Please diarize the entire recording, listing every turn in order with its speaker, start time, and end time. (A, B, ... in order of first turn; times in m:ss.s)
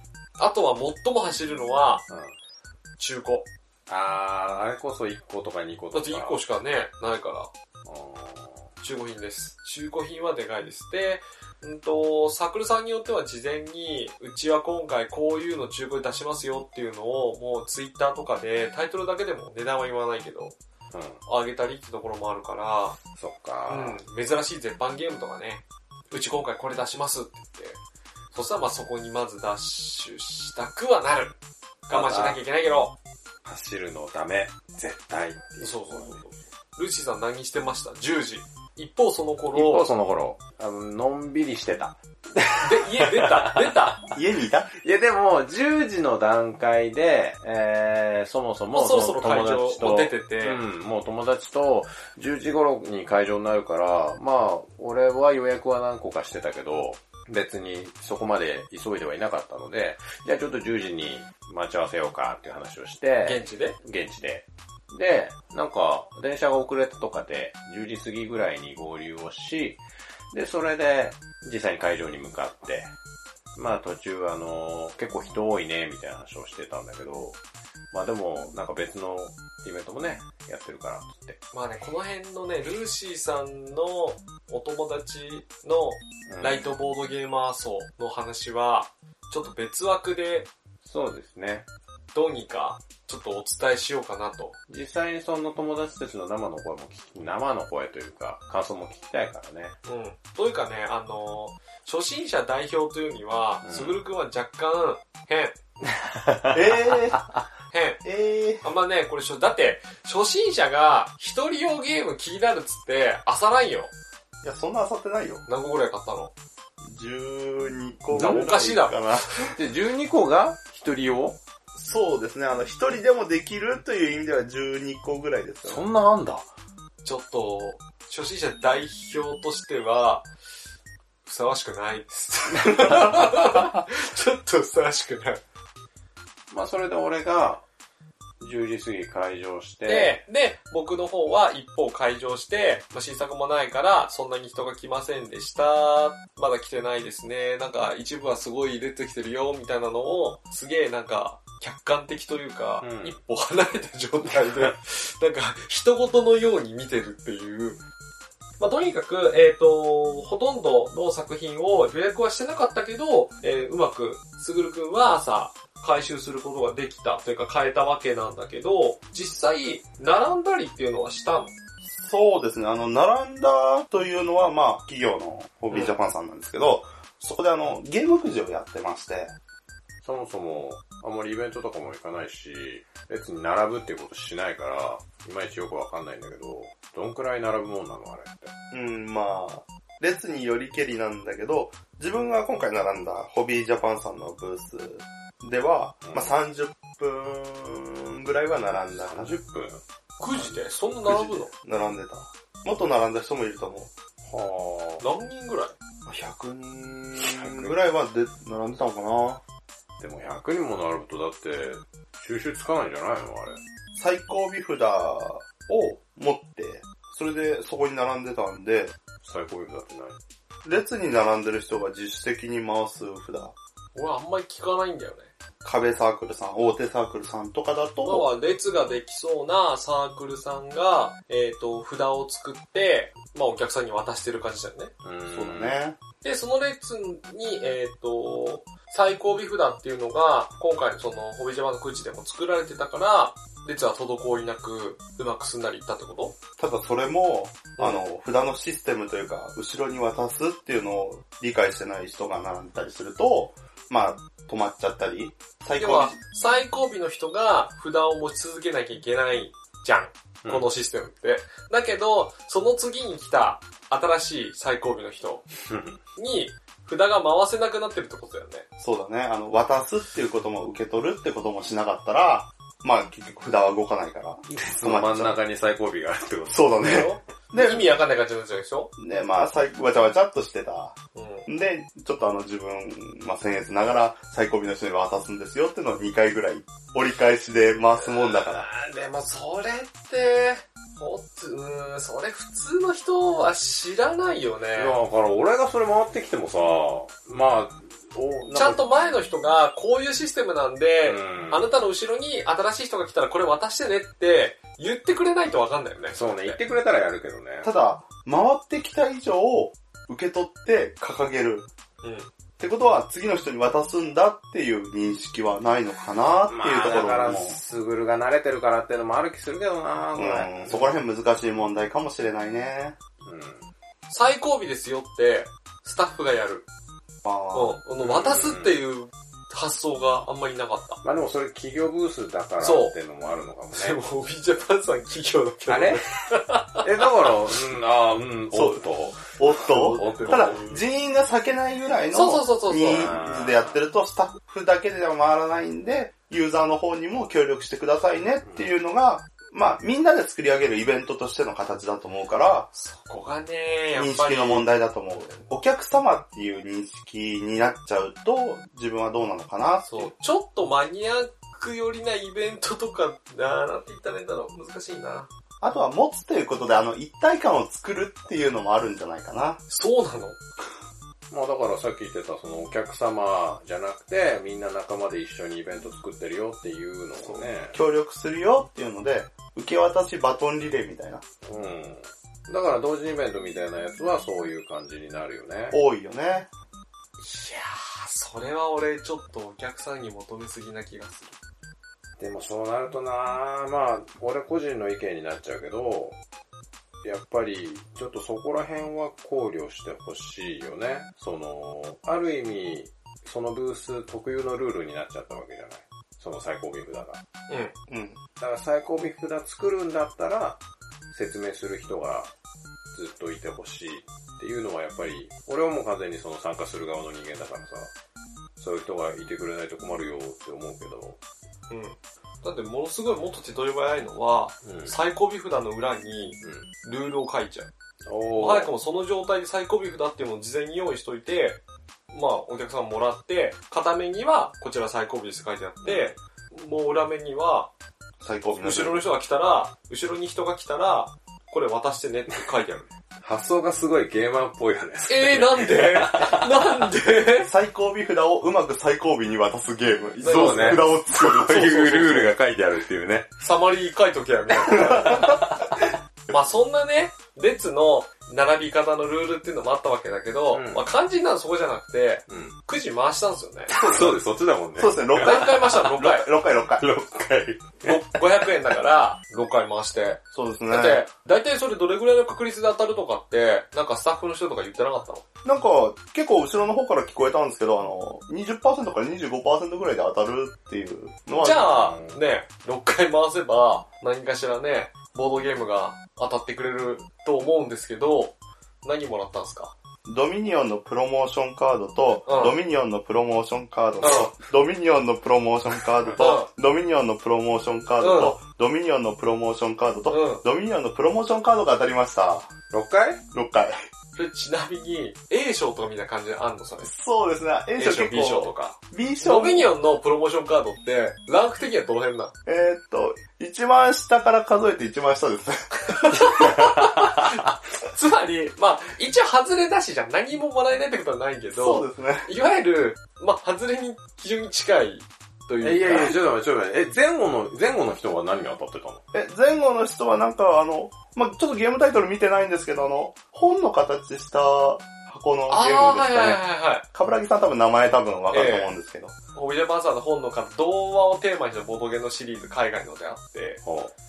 0:00.4-0:02.0 A
0:02.1-0:02.4 B
0:03.0-0:03.5 A
0:03.9-0:06.4 B
0:05.9-0:07.5 A
0:07.8-0:08.7 B
0:08.8-0:20.6 A
0:20.9-0:21.2 B
0:21.2-0:23.0 A
0:23.2-0:24.0 B
0:23.7-0:27.8 A
0:28.3-0:31.3 A
0:31.9-0:32.9 A
0:31.9-0:32.4 B
0:33.4-0:36.2 B
0:35.6-0:39.9 A
0:39.5-0:44.1 B
0:42.6-0:44.0 A
0:44.1-0:44.7 C
0:44.8-1:12.9 B
0:48.7-0:50.6 A
1:03.2-1:03.8 A
1:13.5-1:17.4 B
1:17.9-1:21.4 B
1:21.5-1:30.5 A
1:26.3-1:26.7 B
1:30.8-1:31.7 B
1:32.1-1:34.6 A
1:34.7-1:39.8 B
1:39.8-1:45.6 A
1:43.6-1:44.0 B
1:45.9-1:47.4 B
1:46.5-1:47.2 C
1:47.7-1:48.0 A
1:48.0-1:48.6 C
1:48.6-1:53.9 A
1:54.4-1:55.4 C
1:55.5-1:56.3 A
1:56.8-1:59.5 C
1:58.1-1:58.4 B
1:58.1-1:59.1 A
1:59.5-2:01.4 B
2:01.7-2:05.8 C
2:05.6-2:06.5 B
2:07.0-2:10.3 A
2:11.2-2:15.4 A
2:16.5-2:17.6 B
2:18.4-2:20.2 B
2:19.8-2:37.8 A
2:32.8-2:33.2 B
2:34.3-2:34.7 B
2:38.6-2:51.5 A
2:51.8-2:59.3 C
2:55.7-2:56.0 A
3:00.0-3:08.5 B
3:08.7-3:19.4 C
3:16.0-3:16.3 B
3:18.9-3:19.8 B
3:20.2-3:21.5 A
3:20.3-3:20.6 B
3:21.0-3:23.9 C
3:24.2-3:25.0 B
3:25.0-3:25.7 A
3:26.0-3:29.4 C
3:27.2-3:27.8 B
3:30.0-3:33.6 B
3:33.9-3:38.9 C
3:39.2-3:40.2 B
3:40.6-3:43.5 C
3:43.9-3:45.3 A
3:45.6-3:48.3 C
3:48.0-3:54.9 A
3:55.0-3:55.8 B
3:55.3-3:56.0 C
3:56.2-4:06.3 A
4:06.6-4:16.2 C
4:15.7-4:25.4 A
4:25.7-4:26.0 B
4:26.2-4:28.6 A
4:28.8-4:35.4 C
4:34.5-4:37.1 B
4:36.5-4:37.9 C
4:36.8-4:38.9 A
4:39.0-4:48.7 C
4:41.1-4:41.5 A
4:48.0-4:55.0 A
4:54.7-4:58.8 B
4:58.5-5:06.6 A
5:01.0-5:01.7 B
5:06.1-5:07.7 B
5:07.6-5:11.7 C
5:12.0-5:12.3 A
5:12.6-5:17.6 C
5:16.5-5:20.9 B
5:20.1-5:23.0 C
5:23.2-5:23.7 B
5:24.1-5:26.6 A
5:27.2-5:27.8 C
5:27.5-5:31.0 A
5:28.0-5:28.8 B
5:31.0-5:34.0 B
5:32.6-5:32.9 A
5:33.7-5:36.8 A
5:35.7-5:36.0 B
5:36.8-5:40.7 B
5:38.5-5:52.7 C
5:39.6-5:40.8 A
5:42.1-5:43.1 A
5:42.9-5:43.8 B
5:48.4-5:48.7 B
5:52.7-5:54.7 A
5:53.9-6:00.1 C
5:59.8-6:05.3 A
6:05.6-6:09.6 C
6:09.7-6:10.4 A
6:11.3-6:17.8 B
6:17.2-6:21.2 C
6:21.4-6:25.8 B
6:25.7-6:26.5 C
6:27.2-6:31.4 A
6:32.2-6:36.2 B
6:37.0-6:47.2 B
6:47.5-6:47.7 A
6:47.9-6:48.2 C
6:48.4-6:50.6 B
6:51.1-6:52.3 B
6:52.9-6:57.9 B
6:58.6-7:01.2 B
7:01.7-7:07.7 A
7:04.6-7:04.9 B
7:06.4-7:06.7 B
7:08.0-7:08.7 B
7:08.3-7:11.6 A
7:12.1-7:17.7 A
7:15.8-7:16.1 B
7:18.2-7:19.0 C
7:18.5-7:22.9 A
7:23.2-7:26.9 B
7:25.1-7:27.5 A
7:27.4-7:32.2 C
7:30.2-7:32.3 A
7:30.2-7:33.3 B
7:33.4-7:35.5 A
7:34.6-7:35.9 B
7:34.7-7:35.3 C
7:36.3-7:43.7 A
7:40.5-7:40.8 B
7:42.3-7:42.6 B
7:43.7-7:45.8 B
7:43.8-7:44.2 C
7:44.8-7:46.9 C
7:45.2-7:46.3 A
7:46.8-7:48.5 B
7:47.8-7:55.2 A
7:50.3-7:51.0 C
7:55.4-8:01.9 C
8:01.4-8:09.7 A
8:01.6-8:02.2 B
8:10.0-8:22.5 C
8:12.3-8:12.6 A
8:14.0-8:14.3 A
8:16.2-8:16.5 A
8:18.0-8:18.4 A
8:20.1-8:20.4 A
8:22.7-8:23.2 B
8:23.3-8:23.7 C
8:24.2-8:26.9 A
8:26.8-8:29.7 C
8:27.8-8:32.3 A
8:32.4-8:36.1 C
8:35.8-8:46.2 A
8:41.5-8:42.3 C
8:45.6-8:49.0 B
8:49.1-8:59.1 C
8:55.5-8:56.8 A
8:58.3-8:58.7 A
8:59.3-9:03.6 A
9:03.6-9:03.9 B